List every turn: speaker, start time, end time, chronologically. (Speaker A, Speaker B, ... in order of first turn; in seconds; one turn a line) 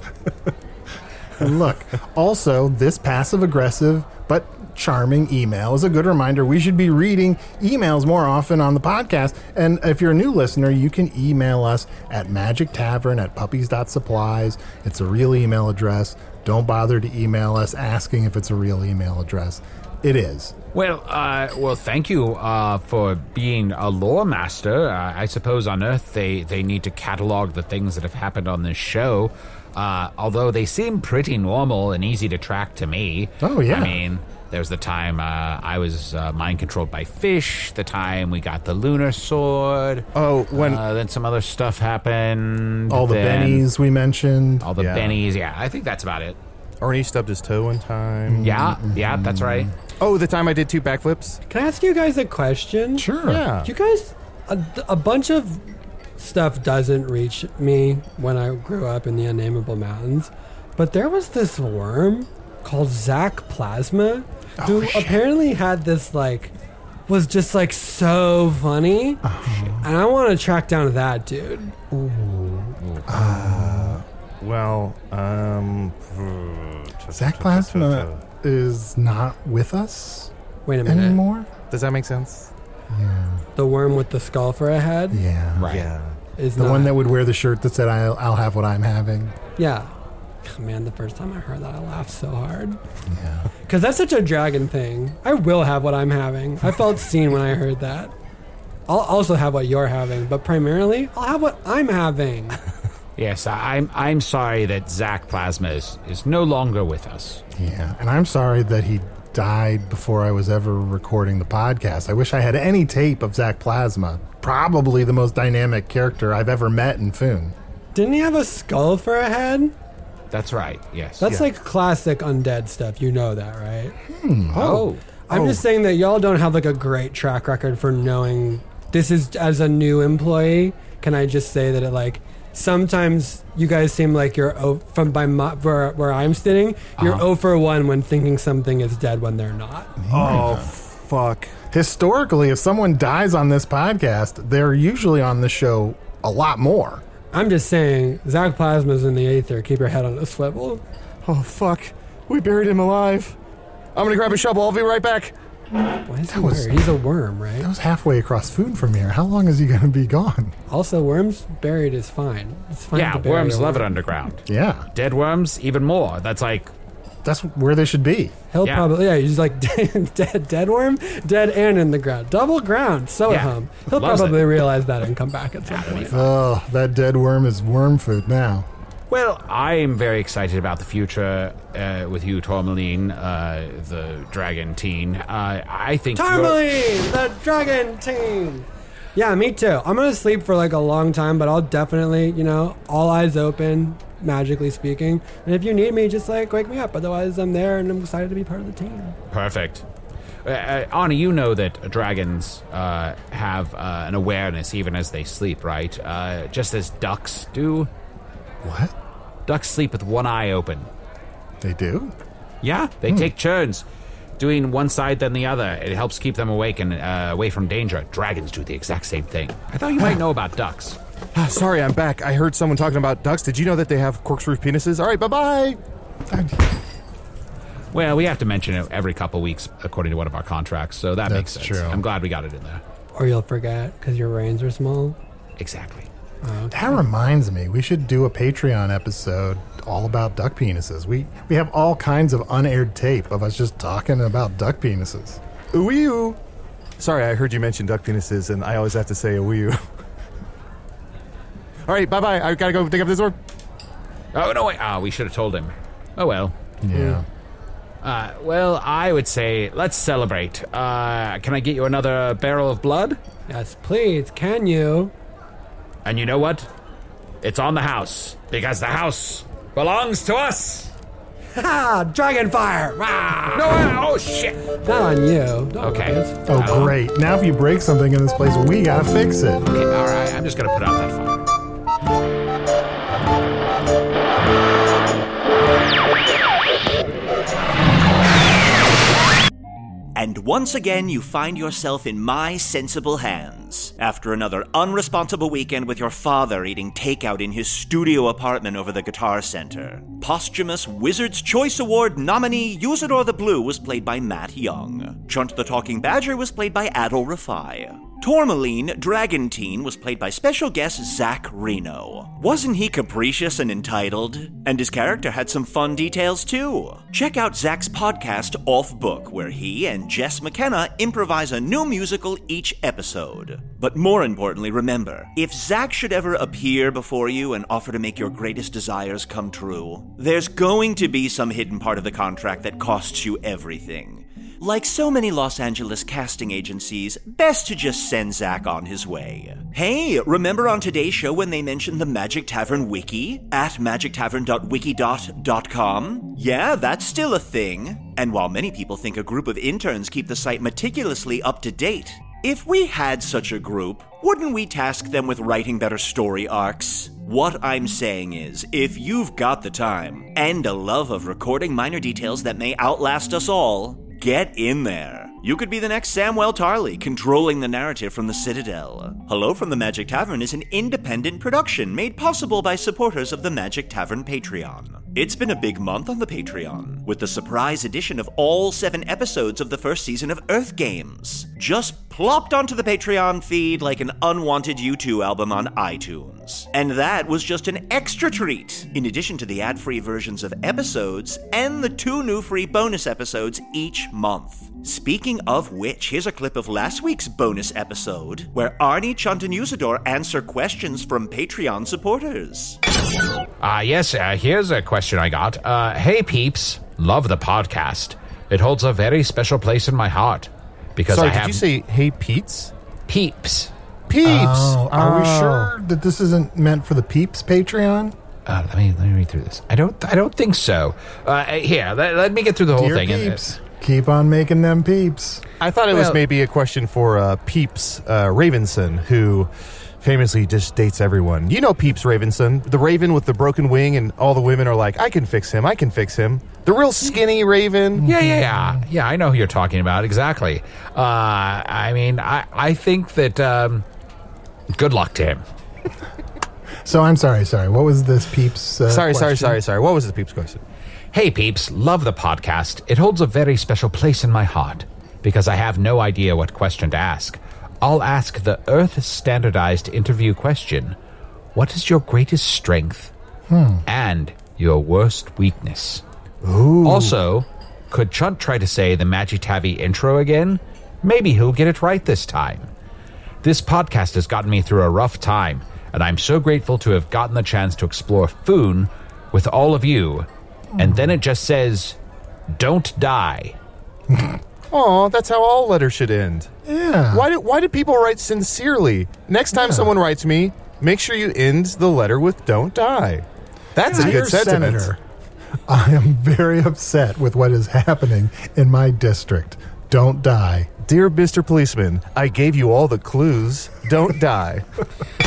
Speaker A: 1.4-20.5
Speaker B: 20.7-43.7
Speaker A: 33.4-34.0
Speaker C: 40.1-40.8
Speaker A: 42.9-44.7
Speaker B: 44.6-46.4
Speaker C: 44.8-45.2
Speaker C: 46.8-48.5
Speaker A: 48.3-49.7
Speaker B: 48.4-49.7
Speaker C: 50.0-51.4
Speaker D: 51.5-53.1
Speaker A: 53.0-53.4
Speaker C: 53.3-53.7
Speaker D: 53.6-55.7
Speaker D: 56.2-66.5
Speaker A: 64.6-65.2
Speaker D: 67.1-69.2
Speaker A: 69.2-69.9
Speaker B: 69.4-69.8
Speaker D: 69.8-71.8
Speaker A: 71.9-74.0
Speaker C: 73.1-78.2
Speaker A: 77.1-80.3
Speaker D: 80.7-81.2
Speaker A: 80.8-81.5
Speaker C: 81.7-82.5
Speaker A: 82.9-83.4
Speaker D: 83.6-85.2
Speaker A: 85.1-85.7
Speaker B: 85.6-85.9
Speaker C: 85.7-86.2
Speaker D: 86.4-87.0
Speaker A: 86.6-89.4
Speaker D: 89.6-89.9
Speaker D: 90.5-92.8
Speaker A: 93.1-93.5
Speaker D: 93.7-98.1
Speaker D: 98.9-102.6
Speaker B: 103.2-107.4
Speaker A: 107.5-117.6
Speaker D: 118.0-119.8
Speaker B: 120.3-121.3
Speaker D: 121.2-124.0
Speaker A: 124.1-124.6
Speaker B: 124.5-125.0
Speaker D: 124.6-139.9
Speaker C: 125.3-125.6
Speaker A: 140.0-140.7
Speaker C: 140.1-141.5
Speaker A: 141.7-147.0
Speaker D: 147.3-150.8
Speaker C: 151.2-153.4
Speaker C: 153.9-155.3
Speaker D: 156.1-157.7
Speaker A: 156.3-156.9
Speaker A: 157.6-160.6
Speaker D: 160.7-163.9
Speaker B: 162.9-166.7
Speaker A: 164.5-164.9
Speaker A: 167.2-168.3
Speaker D: 168.5-176.2
Speaker B: 168.6-168.9
Speaker B: 173.3-174.7
Speaker B: 175.7-176.3
Speaker A: 176.1-178.7
Speaker B: 179.1-186.6
Speaker D: 186.2-199.2
Speaker B: 199.3-199.8
Speaker B: 200.4-207.9
Speaker A: 208.6-208.9
Speaker B: 209.5-210.9
Speaker A: 211.6-212.1
Speaker B: 212.6-213.8
Speaker A: 213.1-213.3
Speaker B: 214.4-221.0
Speaker C: 221.3-225.8
Speaker A: 226.3-226.6
Speaker B: 227.9-232.8
Speaker A: 231.3-232.0
Speaker D: 233.2-235.2
Speaker B: 235.6-236.1
Speaker D: 236.4-237.0
Speaker A: 236.7-245.4
Speaker C: 245.7-246.4
Speaker C: 247.0-249.8
Speaker C: 251.9-253.4
Speaker B: 254.3-256.5
Speaker A: 256.8-257.2
Speaker B: 258.0-263.2
Speaker D: 263.5-265.1
Speaker B: 266.1-266.7
Speaker B: 267.4-270.9
Speaker D: 271.6-273.9
Speaker B: 273.4-274.6
Speaker D: 274.8-276.4
Speaker B: 275.8-276.9
Speaker A: 276.5-279.6
Speaker B: 279.6-281.4
Speaker E: 290.1-402.8
Speaker B: 403.6-411.6
Speaker C: 411.1-412.7
Speaker B: 413.1-413.7
Speaker C: 414.1-415.7
Speaker A: 414.2-418.2
Speaker B: 418.5-423.4
Speaker A: 422.7-425.4
Speaker C: 425.6-429.5
Speaker C: 430.0-438.1
Speaker A: 438.0-438.8
Speaker B: 438.0-443.9
Speaker B: 444.7-445.4
Speaker A: 446.8-449.6
Speaker C: 448.9-450.6
Speaker B: 451.1-461.0
Speaker B: 461.6-463.1
Speaker A: 463.5-463.8
Speaker B: 463.9-466.0
Speaker A: 466.4-467.2
Speaker B: 466.8-472.7
Speaker B: 473.4-482.0
Speaker A: 480.7-481.1
Speaker B: 482.5-483.6
Speaker A: 484.1-484.4
Speaker C: 484.7-486.5
Speaker A: 486.7-487.3
Speaker C: 487.1-494.9
Speaker A: 489.5-489.9
Speaker A: 493.8-495.0
Speaker A: 495.7-500.7
Speaker C: 500.8-504.6